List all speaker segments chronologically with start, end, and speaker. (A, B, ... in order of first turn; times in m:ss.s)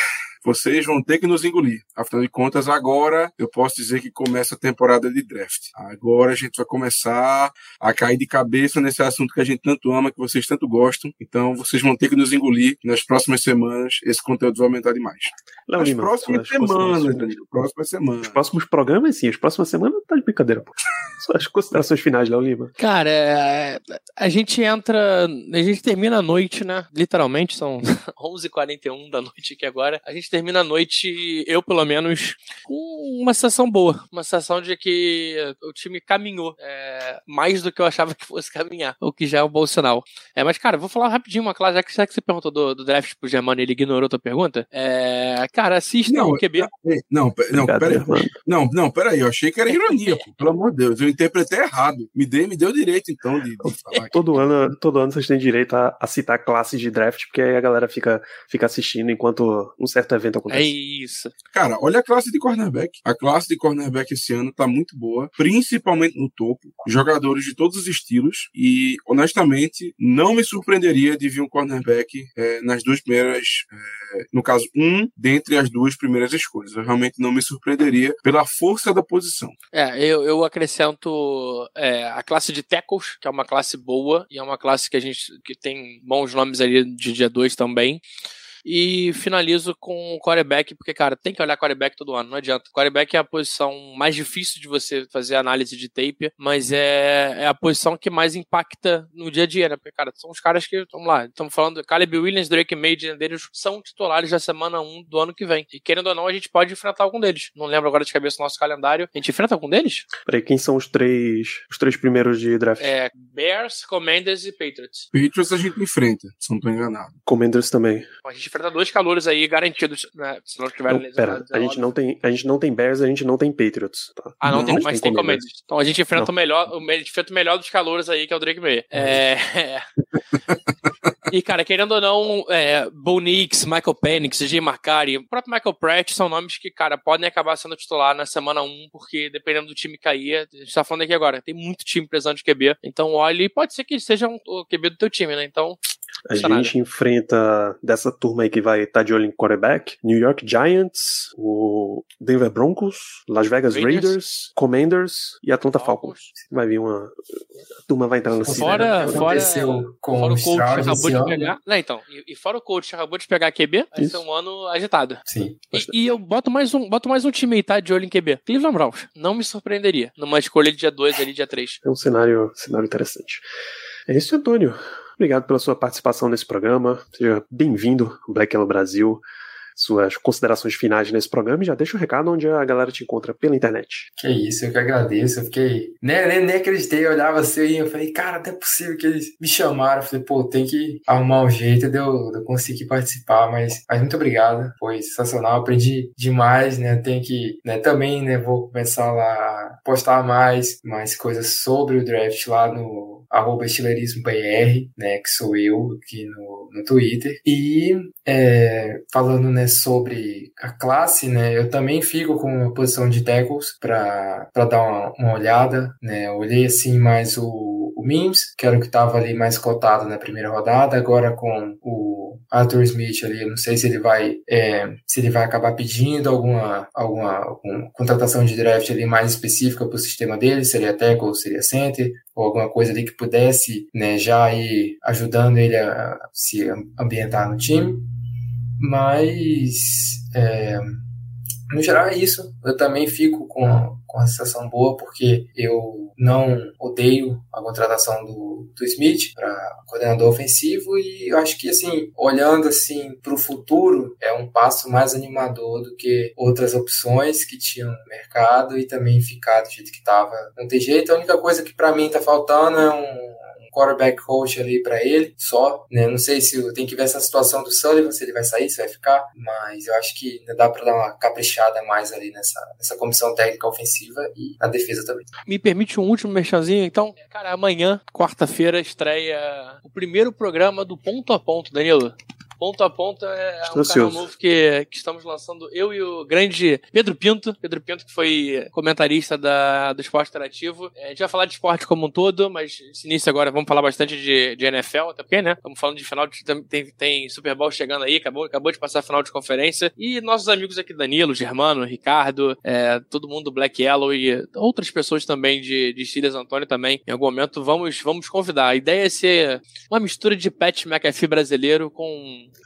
0:00.4-0:18.4 A
0:15.7-0:17.4 B
0:18.2-0:22.7 B
0:22.8-0:46.7 C
0:46.1-0:54.2 A
0:47.6-0:48.3 B
0:49.7-0:50.2 C
0:53.6-1:00.7 B
1:00.5-1:01.3 C
1:01.5-1:19.5 A
1:19.7-1:28.0 C
1:28.6-1:50.1 C
1:50.2-1:52.9 B
1:52.8-1:55.1 C
1:55.1-1:57.1 A
1:57.2-1:58.1 B
1:58.2-2:01.9 C
2:00.9-2:05.5 B
2:04.4-2:09.8 C
2:04.5-2:04.8 A
2:08.9-2:09.2 B
2:11.3-2:25.8 C
2:26.3-2:37.2 B
2:26.3-2:26.7 C
2:33.7-2:34.2 C
2:35.7-2:36.3 C
2:37.9-2:39.5 B
2:38.4-2:41.5 D
2:38.5-2:45.2 C
2:44.0-2:44.2 B
2:45.3-2:45.7 D
2:45.7-2:51.8 C
2:51.8-2:53.4 B
2:54.1-2:59.2 B
2:59.7-3:04.1 B
3:04.2-3:58.1 D
3:58.8-4:01.0 D
4:01.7-4:35.3 D
4:35.5-5:12.5 C
4:43.6-4:44.3 B